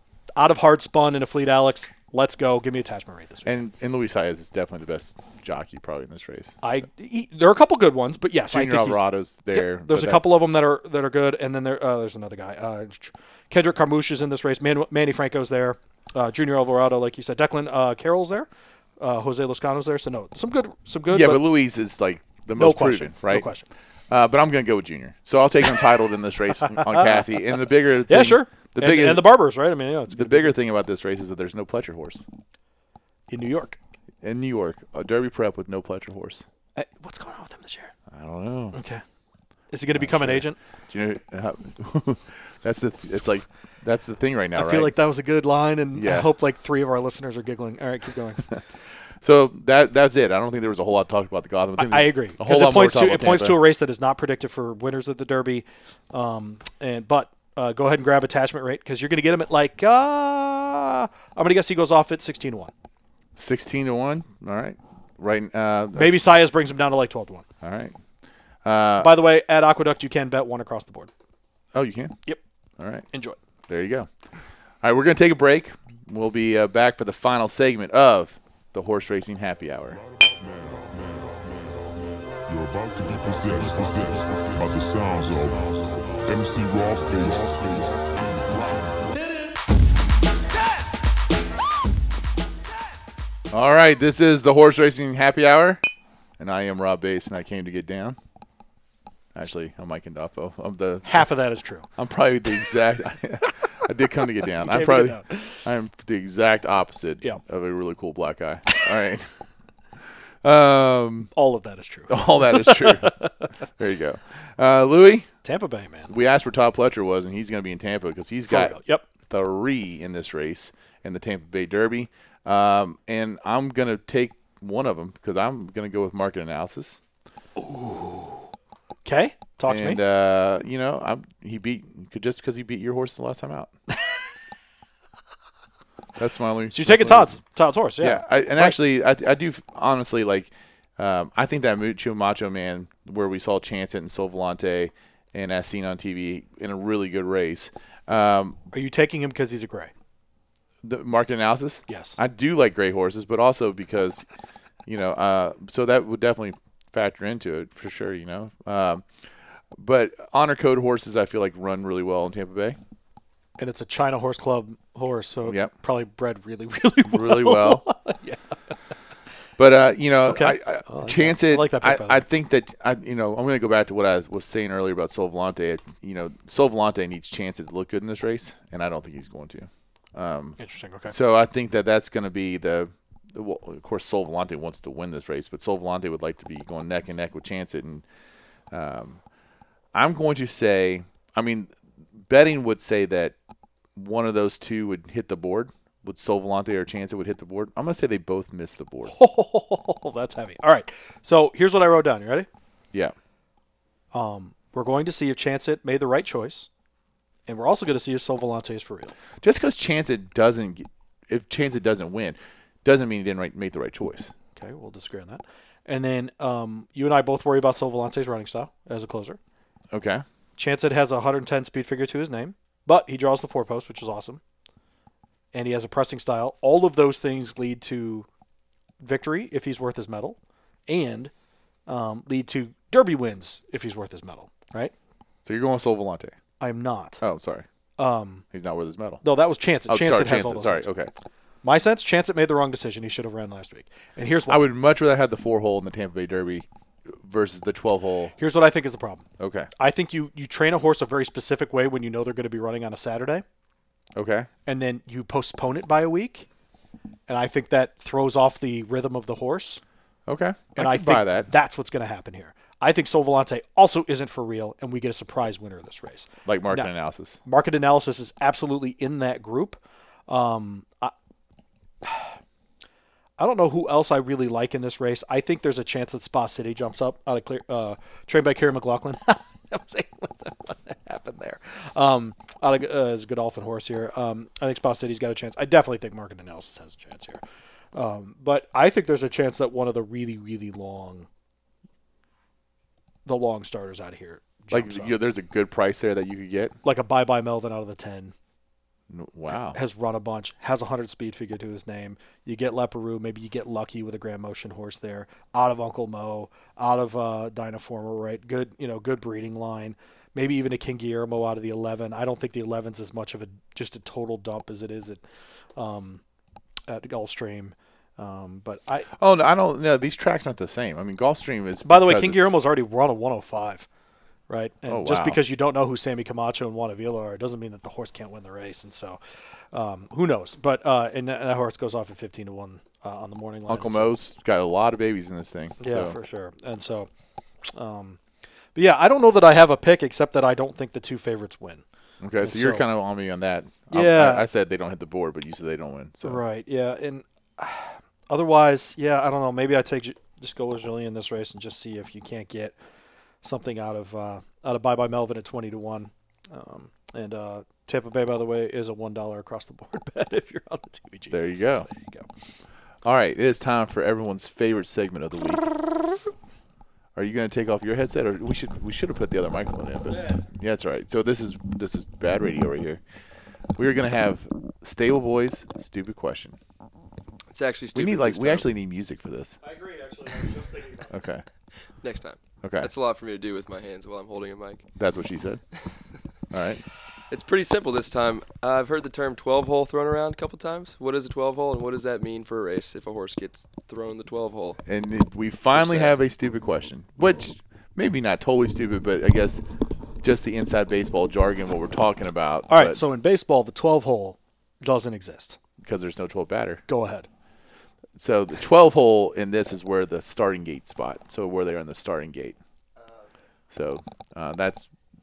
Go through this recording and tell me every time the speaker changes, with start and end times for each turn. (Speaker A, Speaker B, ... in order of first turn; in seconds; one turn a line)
Speaker A: 0.4-3.6
Speaker B: 3.5-6.7
Speaker A: 6.6-18.5
Speaker B: 8.5-10.3
Speaker A: 19.0-21.4
Speaker B: 21.1-23.5
Speaker A: 22.5-23.7
Speaker B: 24.1-29.3
Speaker A: 26.6-27.2
Speaker A: 28.1-30.5
Speaker B: 30.1-32.2
Speaker A: 33.3-33.8
Speaker B: 34.2-36.5
Speaker A: 36.8-37.9
Speaker B: 38.1-38.8
Speaker A: 38.7-39.0
Speaker A: 39.7-40.6
Speaker B: 39.9-44.9
Speaker A: 44.6-48.5
Speaker B: 45.9-46.3
Speaker B: 49.2-53.6
Speaker A: 51.8-62.7
Speaker B: 63.4-66.1
Speaker A: 66.0-67.5
Speaker B: 67.6-68.0
Speaker B: 68.6-69.1
Speaker A: 69.0-71.1
Speaker B: 71.7-72.2
Speaker B: 72.8-73.1
Speaker A: 73.1-73.4
Speaker B: 73.7-74.1
Speaker B: 74.8-80.0
Speaker C: 79.9-89.2
Speaker B: 93.5-95.8
Speaker B: 96.4-98.2
Speaker B: 99.3-101.3
Speaker A: 101.0-101.9
Speaker B: 102.0-109.3
Speaker A: 104.4-105.6
Speaker B: 110.4-111.3
Speaker A: 111.3-113.4
Speaker B: 112.1-113.2
Speaker B: 113.8-115.3
Speaker A: 115.5-116.1
Speaker B: 116.1-127.0
Speaker A: 118.5-119.1
Speaker A: 127.6-128.5
Speaker A: 129.1-130.0
Speaker B: 129.7-133.7
Speaker B: 136.2-137.4
Speaker A: 136.7-138.8
Speaker B: 138.0-148.6
Speaker A: 148.7-149.9
Speaker B: 150.8-154.3
Speaker A: 151.9-152.2
Speaker B: 154.9-159.1
Speaker B: 159.7-162.8
Speaker A: 163.6-168.4
Speaker B: 165.4-165.7
Speaker B: 167.1-167.8
Speaker B: 169.6-188.0
Speaker A: 170.3-172.2
Speaker A: 180.6-181.1
Speaker B: 188.7-189.2
Speaker B: 189.9-193.3
Speaker B: 194.0-199.2
Speaker A: 199.1-202.5
Speaker A: 204.1-206.7
Speaker A: 207.5-209.1
Speaker B: 209.4-214.3
Speaker A: 214.6-219.4
Speaker B: 219.9-220.2
Speaker A: 220.6-224.4
Speaker A: 225.5-228.3
Speaker A: 229.0-231.3
Speaker A: 231.9-234.9
Speaker B: 235.4-236.4
Speaker A: 236.6-237.2
Speaker B: 237.2-237.7
Speaker A: 238.0-238.4
Speaker B: 238.5-239.2
Speaker A: 239.2-240.9
Speaker B: 239.9-241.1
Speaker A: 241.6-244.7
Speaker B: 244.5-248.3
Speaker A: 248.4-249.3
Speaker B: 249.4-249.7
Speaker A: 249.8-253.4
Speaker B: 254.2-254.5
Speaker A: 254.7-256.5
Speaker A: 257.3-259.8
Speaker B: 260.3-261.5
Speaker A: 260.8-266.9
Speaker B: 266.5-267.4
Speaker A: 267.4-271.1
Speaker A: 272.0-272.4
Speaker A: 273.4-287.4
Speaker A: 287.9-291.3
Speaker A: 293.3-295.2
Speaker B: 294.7-296.8
Speaker A: 296.8-298.4
Speaker B: 299.1-299.8
Speaker A: 299.7-315.2
Speaker A: 315.8-316.2
Speaker A: 316.9-319.1
Speaker B: 319.1-322.5
Speaker A: 321.9-323.9
Speaker A: 324.5-329.2
Speaker B: 324.9-325.4
Speaker A: 329.7-334.1
Speaker B: 333.7-336.2
Speaker A: 335.8-337.1
Speaker A: 337.7-338.2
Speaker A: 338.8-341.8
Speaker B: 342.2-346.4
Speaker A: 342.4-342.9
Speaker A: 343.9-344.5
Speaker A: 346.2-352.8
Speaker A: 353.4-362.3
Speaker B: 361.3-361.9
Speaker B: 363.0-365.9
Speaker B: 367.1-373.0
Speaker A: 370.1-370.5
Speaker B: 373.8-376.6
Speaker D: 377.5-378.7
Speaker B: 377.9-379.6
Speaker A: 379.6-381.1
Speaker B: 381.1-381.4
Speaker D: 382.0-384.9
Speaker B: 382.6-382.9
Speaker B: 385.0-385.6
Speaker B: 386.5-386.8
Speaker D: 387.3-394.8
Speaker B: 394.9-399.6
Speaker D: 395.7-396.1
Speaker B: 400.2-403.0
Speaker A: 402.7-405.6
Speaker B: 405.8-406.8
Speaker A: 406.9-407.3
Speaker B: 408.2-412.6
Speaker B: 413.7-414.9